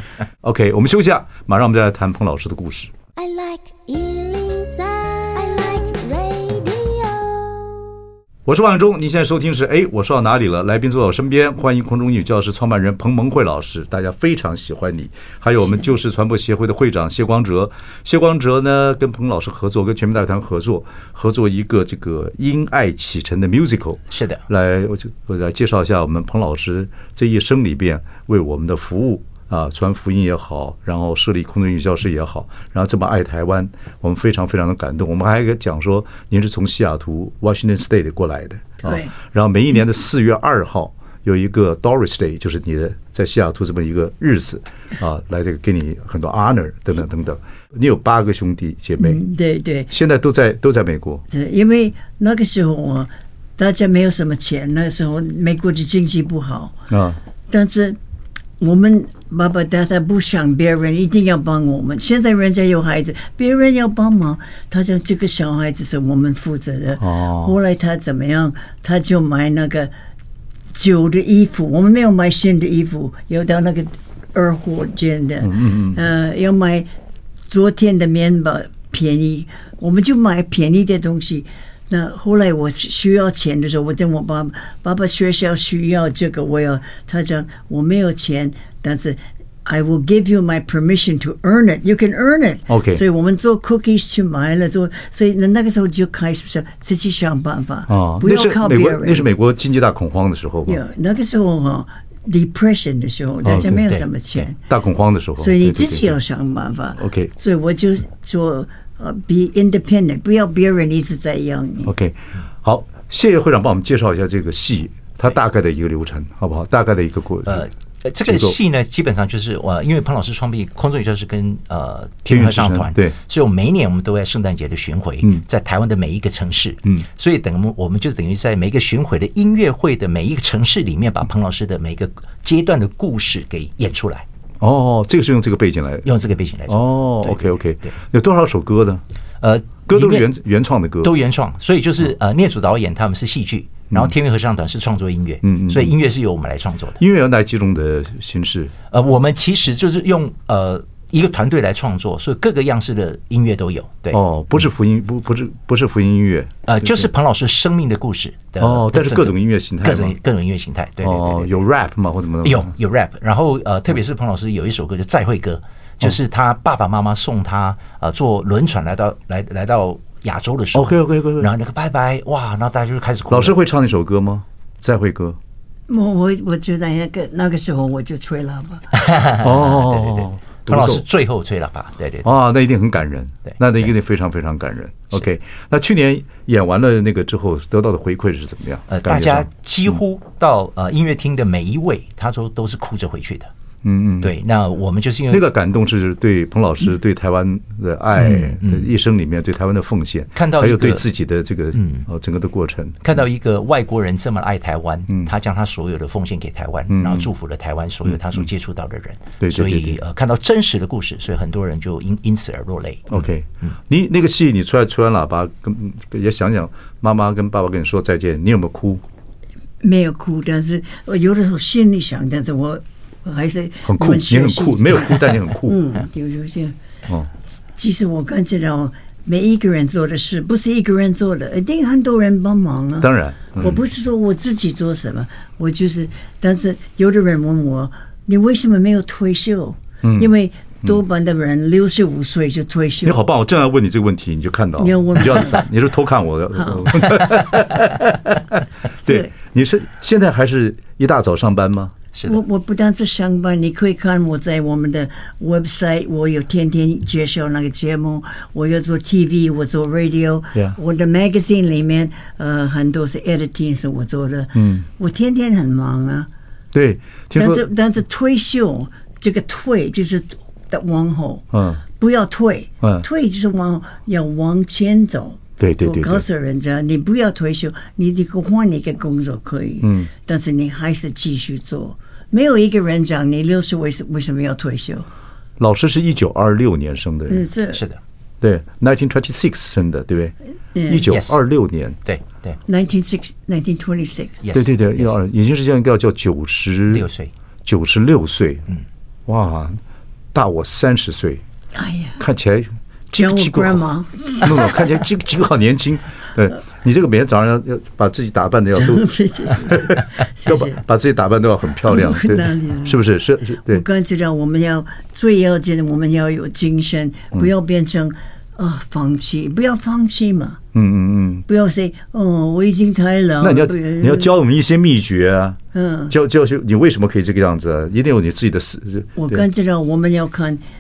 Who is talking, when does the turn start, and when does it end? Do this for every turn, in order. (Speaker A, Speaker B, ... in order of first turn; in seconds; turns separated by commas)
Speaker A: 0.4-2.9, Speaker B: 3.2-7.9, Speaker A: 8.5-49.2, Speaker C: 24.1-24.4, Speaker D: 38.8-39.1, Speaker D: 49.0-49.9, Speaker A: 49.9-51.2, Speaker D: 51.3-56.8, Speaker A: 56.9-57.2, Speaker D: 57.5-58.0, Speaker D: 58.6-69.9, Speaker A: 67.0-67.5, Speaker D: 70.7-76.9, Speaker A: 75.4-76.0, Speaker D: 77.5-99.3, Speaker A: 92.7-93.0, Speaker A: 97.9-100.8, Speaker D: 100.7-104.6, Speaker A: 103.4-103.8, Speaker A: 104.6-106.2, Speaker D: 105.4-111.9, Speaker A: 107.0-107.3, Speaker A: 111.9-117.7, Speaker C: 117.5-134.3, Speaker A: 118.3-118.6, Speaker A: 122.3-123.2, Speaker A: 134.6-136.1, Speaker C: 136.1-137.9, Speaker A: 136.7-139.0, Speaker C: 139.4-140.3, Speaker A: 139.9-141.1, Speaker C: 141.0-147.0, Speaker A: 145.4-145.9, Speaker A: 147.0-148.7, Speaker C: 148.9-154.2, Speaker A: 154.1-156.9, Speaker C: 156.7-161.6, Speaker A: 158.6-160.2, Speaker A: 161.0-162.7, Speaker C: 162.4-173.6, Speaker A: 170.7-171.5, Speaker A: 173.3-175.4, Speaker D: 175.9-178.9, Speaker C: 178.9-182.3, Speaker A: 179.4-181.0, Speaker A: 182.2-190.0, Speaker C: 188.9-193.5, Speaker A: 193.8-194.3, Speaker C: 194.2-195.5, Speaker A: 195.3-203.0, Speaker C: 198.2-198.9, Speaker C: 200.4-201.1, Speaker C: 201.7-202.1, Speaker C: 203.0-213.7, Speaker A: 206.9-207.3, Speaker A: 209.4-210.0, Speaker A: 213.1-219.0, Speaker D: 219.8-226.8, Speaker A: 223.9-225.8, Speaker D: 227.8-243.2, Speaker A: 233.0-233.8, Speaker A: 240.0-240.3, Speaker A: 243.0-251.9, Speaker D: 244.8-245.7, Speaker D: 246.6-246.9, Speaker D: 249.1-249.3, Speaker D: 252.2-266.3, Speaker A: 264.6-264.8, Speaker A: 266.7-267.6, Speaker D: 267.4-285.1, Speaker A: 271.5-271.8, Speaker A: 275.6-276.2, Speaker A: 279.8-280.1, Speaker A: 285.6-287.5, Speaker D: 287.3-287.8, Speaker C: 287.7-288.0, Speaker A: 288.4-290.4, Speaker D: 290.7-291.1, Speaker A: 290.9-292.0, Speaker C: 291.1-291.4, Speaker C: 292.1-292.6, Speaker D: 292.7-294.4, Speaker C: 294.4-295.1, Speaker A: 294.5-297.1, Speaker C: 296.9-297.3, Speaker A: 297.6-298.7, Speaker A: 299.3-299.8, Speaker A: 300.3-301.4, Speaker D: 301.7-302.2, Speaker A: 302.2-303.9, Speaker D: 303.2-304.8, Speaker A: 304.4-313.8, Speaker D: 308.8-310.8, Speaker D: 311.9-313.0, Speaker D: 313.7-320.6, Speaker A: 320.7-321.5, Speaker D: 321.5-324.3, Speaker A: 323.4-325.6, Speaker D: 325.7-326.1, Speaker A: 326.1-329.4, Speaker D: 329.2-330.6